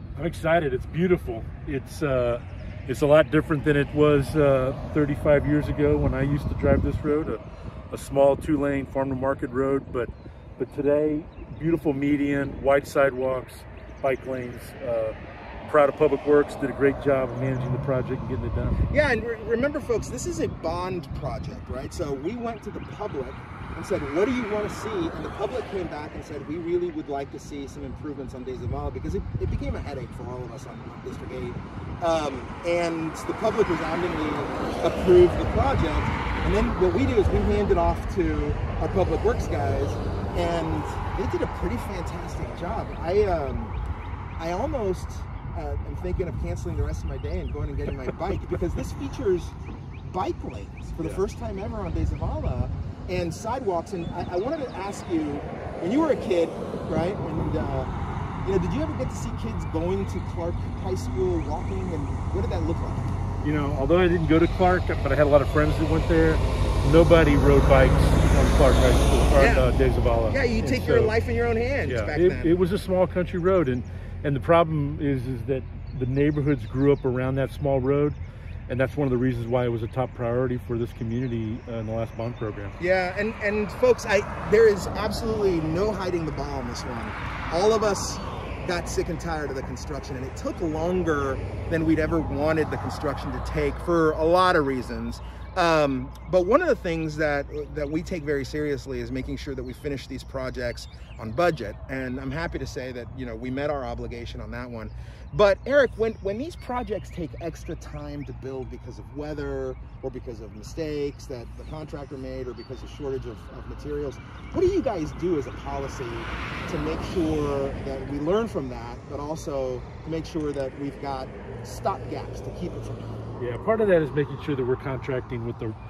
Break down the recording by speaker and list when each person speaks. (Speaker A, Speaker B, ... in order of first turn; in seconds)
Speaker A: 0.1-15.1, 15.7-18.8, 63.4-71.1, 71.8-78.2, 78.7-82.8, 123.4-125.8
Speaker B: 18.9-43.7, 44.4-57.9, 58.4-63.1, 69.3-69.7, 70.3-72.6, 82.8-123.2